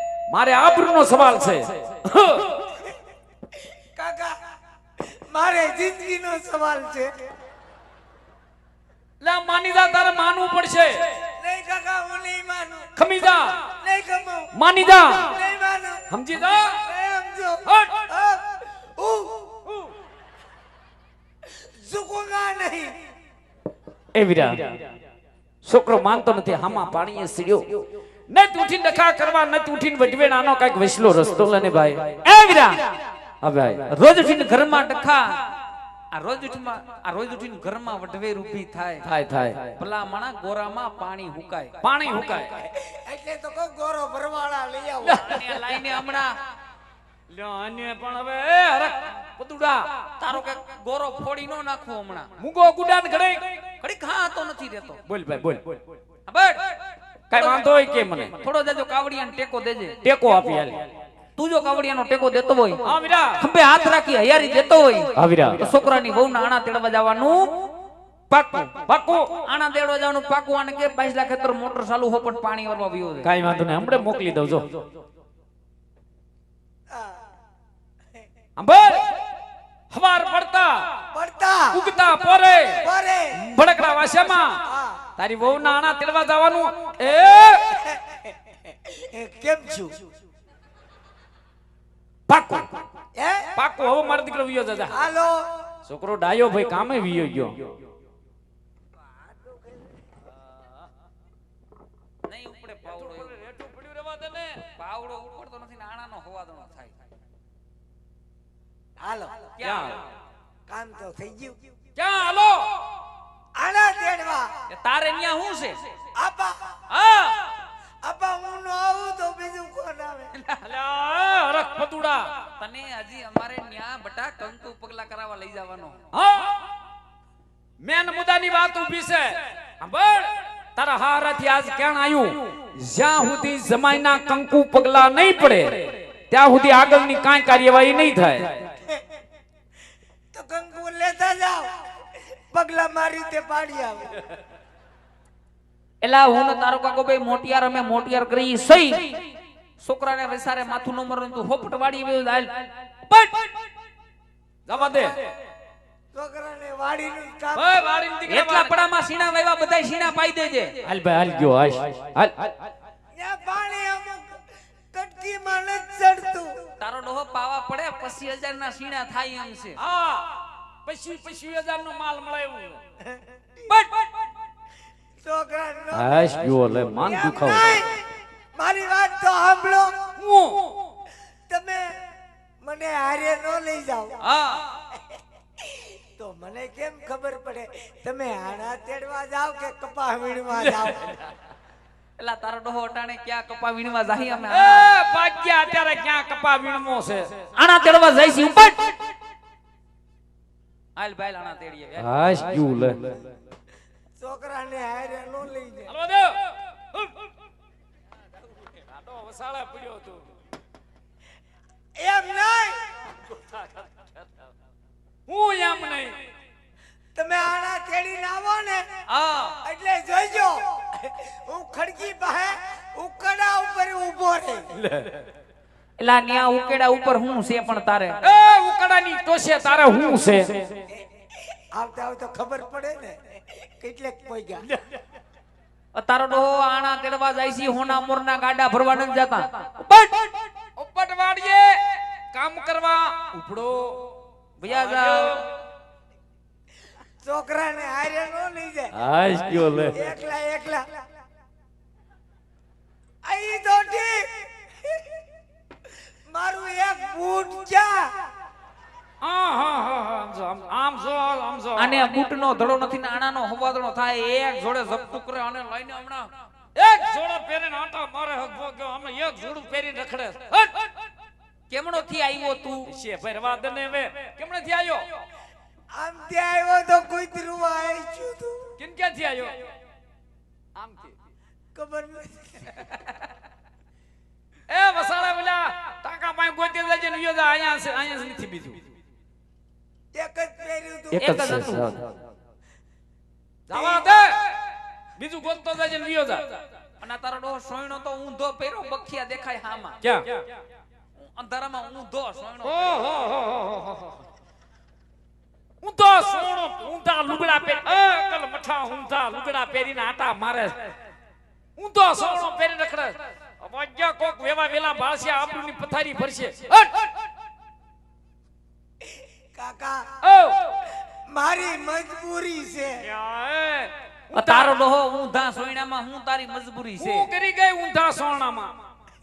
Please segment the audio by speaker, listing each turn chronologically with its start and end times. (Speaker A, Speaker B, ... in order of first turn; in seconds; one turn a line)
Speaker A: 0.3-2.6
Speaker B: 4.0-4.4
Speaker B: 5.0-7.2
Speaker A: 9.2-11.0
Speaker B: 11.4-12.9
Speaker A: 13.0-13.6
Speaker B: 13.8-14.5
Speaker A: 14.5-15.4
Speaker B: 15.1-16.1
Speaker A: 16.1-16.8
Speaker B: 16.8-19.6
Speaker A: 17.6-18.1
Speaker B: 21.5-22.9
Speaker A: 24.1-24.8
Speaker A: 25.6-32.2
Speaker C: 32.2-32.9
Speaker A: 33.4-33.9
Speaker C: 33.9-35.4
Speaker C: 36.1-39.1
Speaker A: 39.0-39.8
Speaker C: 39.8-41.8
Speaker A: 41.8-42.6
Speaker B: 42.8-45.2
Speaker A: 45.0-45.8
Speaker C: 45.2-46.4
Speaker A: 47.3-49.9
Speaker C: 50.2-52.3
Speaker A: 52.4-53.5
Speaker C: 53.8-55.0
Speaker A: 55.1-55.8
Speaker C: 56.3-56.7
Speaker A: 57.3-58.3
Speaker C: 57.3-57.6
Speaker C: 58.4-60.0
Speaker A: 60.0-60.9
Speaker C: 61.4-62.8
Speaker A: 62.8-63.4
Speaker C: 63.4-67.6
Speaker A: 65.2-65.7
Speaker A: 68.3-69.4
Speaker C: 69.5-73.3
Speaker A: 73.2-74.9
Speaker B: 76.9-77.2
Speaker A: 78.6-79.1
Speaker A: 79.9-80.9
Speaker B: 81.1-81.8
Speaker A: 81.7-82.8
Speaker B: 82.8-83.4
Speaker A: 83.4-84.6
Speaker B: 84.7-85.0
Speaker A: 85.2-87.6
Speaker B: 87.7-90.0
Speaker A: 92.3-92.7
Speaker B: 93.2-93.5
Speaker A: 93.6-95.0
Speaker B: 94.9-95.5
Speaker A: 95.9-97.7
Speaker C: 102.2-103.4
Speaker A: 102.9-104.7
Speaker C: 104.6-107.0
Speaker B: 109.0-109.4
Speaker C: 109.6-110.0
Speaker A: 109.6-110.0
Speaker B: 110.7-111.6
Speaker A: 112.0-112.7
Speaker B: 113.6-114.5
Speaker C: 114.7-115.8
Speaker B: 116.2-116.6
Speaker C: 116.9-117.4
Speaker B: 118.0-120.3
Speaker A: 120.6-122.3
Speaker C: 122.6-126.0
Speaker A: 126.1-126.6
Speaker A: 127.8-138.6
Speaker B: 140.3-141.7
Speaker B: 142.5-144.1
Speaker C: 146.0-149.2
Speaker C: 149.8-153.0
Speaker A: 154.7-155.3
Speaker B: 154.8-155.1
Speaker B: 156.1-158.1
Speaker A: 157.6-158.7
Speaker C: 158.3-160.8
Speaker A: 160.8-162.6
Speaker B: 163.2-164.4
Speaker B: 164.9-166.5
Speaker C: 166.8-169.8
Speaker A: 169.8-172.8
Speaker B: 173.0-173.3
Speaker B: 175.2-176.3
Speaker A: 175.9-177.8
Speaker B: 177.1-180.0
Speaker A: 180.2-180.8
Speaker B: 181.5-182.0
Speaker B: 182.6-184.2
Speaker C: 184.2-184.6
Speaker B: 184.9-191.0
Speaker A: 190.6-191.1
Speaker C: 192.2-194.9
Speaker A: 194.5-197.3
Speaker C: 197.6-198.9
Speaker C: 201.0-202.2
Speaker A: 202.0-203.1
Speaker B: 204.2-205.9
Speaker A: 205.9-207.2
Speaker A: 208.7-210.3
Speaker B: 212.0-212.9
Speaker A: 215.3-216.2
Speaker B: 217.1-218.8
Speaker C: 219.1-219.6
Speaker B: 219.6-224.7
Speaker A: 224.8-225.2
Speaker C: 226.0-228.2
Speaker A: 228.2-230.8
Speaker B: 231.7-234.6
Speaker C: 235.9-240.3
Speaker A: 240.8-241.8
Speaker A: 242.3-244.0
Speaker C: 244.6-245.4
Speaker A: 244.7-245.4
Speaker B: 247.2-248.9
Speaker A: 248.9-250.0
Speaker B: 249.9-250.9
Speaker B: 253.2-255.2
Speaker B: 256.3-258.1
Speaker A: 259.2-262.0
Speaker C: 261.8-266.3
Speaker A: 266.8-270.9
Speaker C: 271.7-272.9
Speaker A: 272.9-275.2
Speaker B: 275.9-278.7
Speaker A: 278.8-279.6
Speaker A: 280.8-281.2
Speaker B: 281.8-282.8
Speaker A: 284.7-288.8
Speaker B: 290.1-291.7
Speaker A: 291.1-292.1
Speaker C: 291.2-292.0
Speaker A: 293.7-294.5
Speaker B: 293.7-294.0
Speaker A: 295.2-296.6
Speaker C: 297.0-300.0
Speaker A: 300.0-300.4
Speaker C: 301.2-303.0
Speaker A: 302.6-304.2
Speaker A: 305.8-310.9
Speaker A: 311.8-317.1
Speaker B: 319.5-320.1
Speaker A: 320.2-320.7
Speaker B: 321.3-323.0
Speaker A: 323.0-324.8
Speaker C: 324.3-327.3
Speaker A: 327.0-328.7